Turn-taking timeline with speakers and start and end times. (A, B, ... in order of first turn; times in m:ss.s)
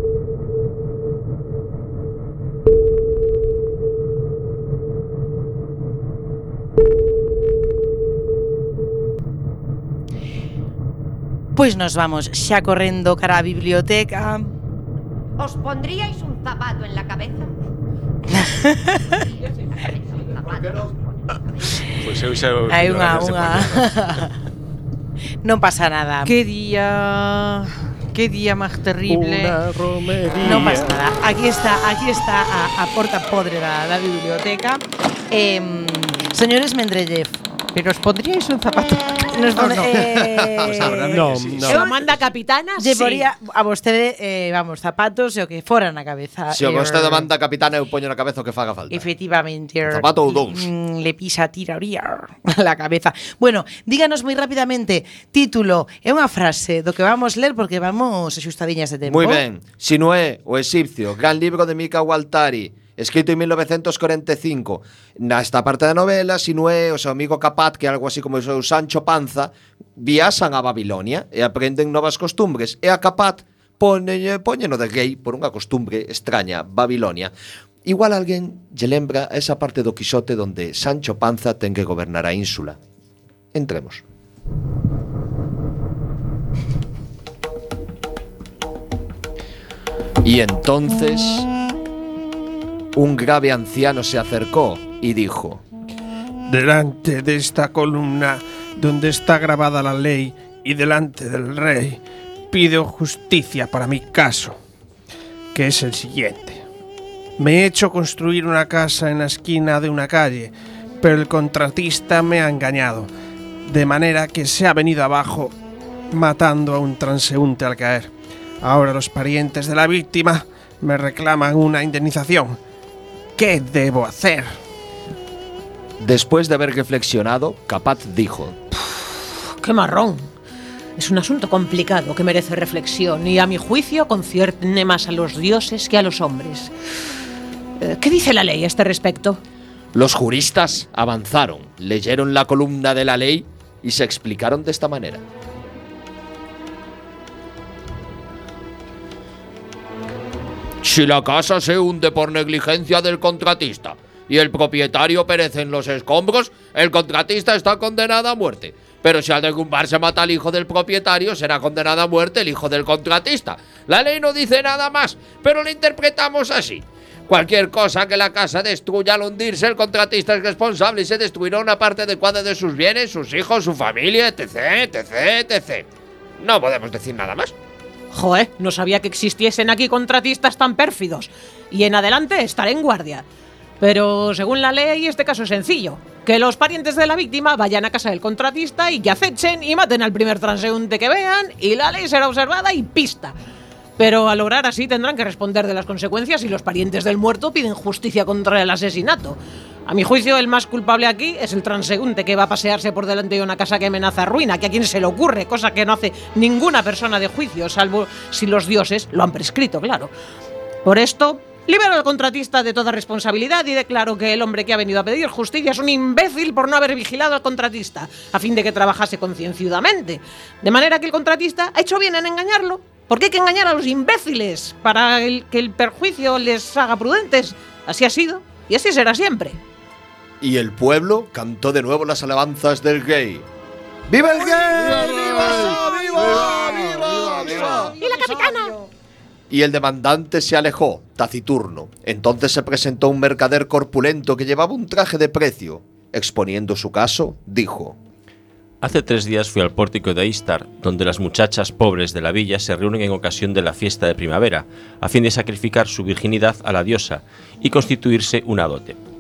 0:11.6-0:14.5 A
0:15.4-0:17.5 B
0:18.3-0:19.2 A
0:19.7-0:21.0 B
0:22.0-0:23.9 C
0:22.7-0:24.3 A
0:25.4-0:26.4 A
0:26.2-0:29.6 D
0:29.1-0:31.0 E
0:30.4-0:37.5 A
0:37.8-0:40.1 D
0:39.3-0:42.0 A
0:40.0-0:41.5 F
0:40.8-0:41.8 E
0:41.6-0:43.3 G
0:42.8-0:47.3 A
0:46.5-0:49.1 F
0:48.9-0:59.4 A
0:49.9-0:50.7 F
0:59.0-1:17.3 F
1:17.8-1:22.8 F
1:23.5-1:24.0 F
1:30.2-1:31.5 F
1:33.0-1:35.6 F
1:36.5-1:42.0 E
1:42.5-1:44.6 E
1:45.5-1:46.6 E
1:47.4-1:53.1 E
1:53.7-1:55.5 E
1:56.1-2:02.6 E
2:03.4-2:04.5 E
2:06.0-2:08.6 F
2:09.6-2:10.3 G
2:11.0-2:16.7 G
2:17.8-2:19.4 G
2:19.9-2:25.2 F
2:30.8-2:55.9 F
2:56.4-2:57.5 F
2:58.1-3:03.2 G
3:03.8-3:13.4 G
3:14.0-3:30.1 G
3:30.8-3:49.6 G
3:50.4-3:53.4 F
3:54.1-3:58.0 F
3:54.7-3:58.7 A
3:57.8-3:58.8 G
3:59.5-4:08.0 F
4:08.8-4:19.0 C